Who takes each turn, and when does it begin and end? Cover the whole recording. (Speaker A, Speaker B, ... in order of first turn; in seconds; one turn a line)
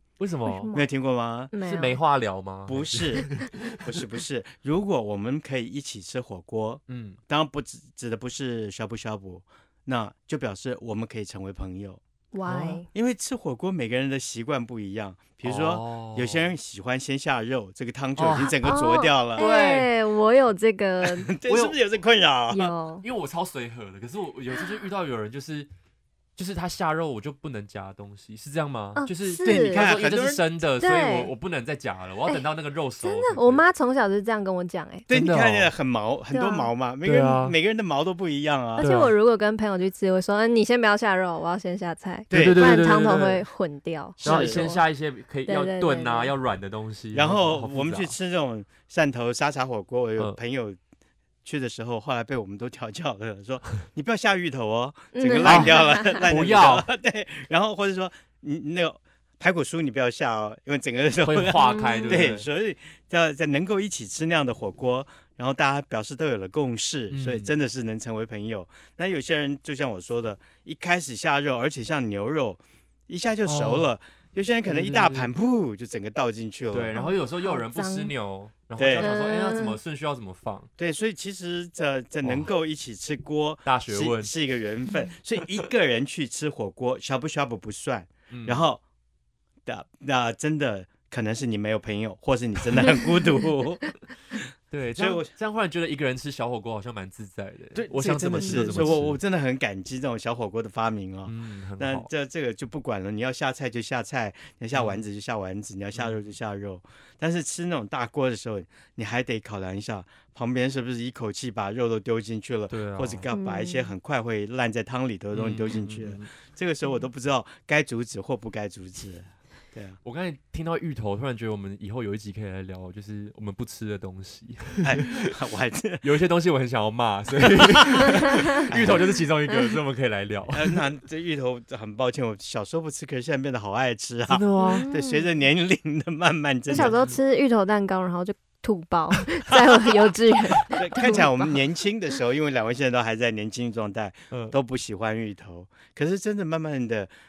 Speaker A: 0.2-0.7
Speaker B: 0.5-0.9
Speaker C: 0.7-1.5
Speaker B: 1.5-2.0
Speaker A: 1.6-4.0
Speaker C: 2.7-12.0
Speaker A: 6.9-7.2
Speaker B: 12.3-12.9
Speaker A: 12.4-12.8
Speaker C: 12.9-19.4
Speaker A: 15.4-16.5
Speaker A: 18.2-18.6
Speaker B: 18.6-21.3
Speaker A: 19.4-19.9
Speaker C: 21.1-22.7
Speaker A: 21.5-21.8
Speaker B: 22.5-23.1
Speaker A: 23.0-25.7
Speaker A: 26.4-33.6
Speaker B: 29.0-29.8
Speaker C: 29.4-30.4
Speaker B: 30.8-31.3
Speaker B: 33.0-35.1
Speaker C: 35.1-38.9
Speaker A: 35.1-35.7
Speaker B: 36.3-36.7
Speaker A: 37.0-37.6
Speaker B: 38.8-44.8
Speaker A: 38.8-39.1
Speaker C: 42.3-42.9
Speaker A: 42.3-43.5
Speaker C: 44.2-44.6
Speaker A: 44.2-48.1
Speaker B: 45.5-46.3
Speaker C: 47.1-50.8
Speaker C: 51.4-77.0
Speaker B: 55.1-56.3
Speaker A: 55.5-56.9
Speaker A: 61.2-62.5
Speaker B: 61.6-62.2
Speaker A: 67.1-67.5
Speaker A: 73.5-73.9
Speaker A: 74.7-75.3
Speaker A: 76.7-80.7
Speaker B: 77.0-78.1
Speaker C: 78.8-79.1
Speaker B: 79.0-79.8
Speaker C: 80.8-88.8
Speaker A: 82.2-82.5
Speaker A: 83.7-84.3
Speaker A: 88.3-88.7
Speaker C: 89.7-95.3
Speaker A: 94.7-99.2
Speaker C: 97.8-120.0
Speaker B: 98.4-98.8
Speaker A: 101.2-102.1
Speaker A: 104.7-105.0
Speaker A: 106.0-106.3
Speaker A: 112.7-113.3
Speaker B: 113.3-113.9
Speaker A: 115.3-116.3
Speaker A: 120.0-125.3
Speaker C: 124.8-126.0
Speaker A: 126.0-130.8
Speaker C: 127.8-128.2
Speaker C: 128.7-129.2
Speaker C: 130.5-137.0
Speaker A: 134.3-134.9
Speaker B: 134.6-135.3
Speaker B: 136.7-141.6
Speaker A: 136.7-137.2
Speaker C: 140.7-147.1
Speaker A: 144.3-144.6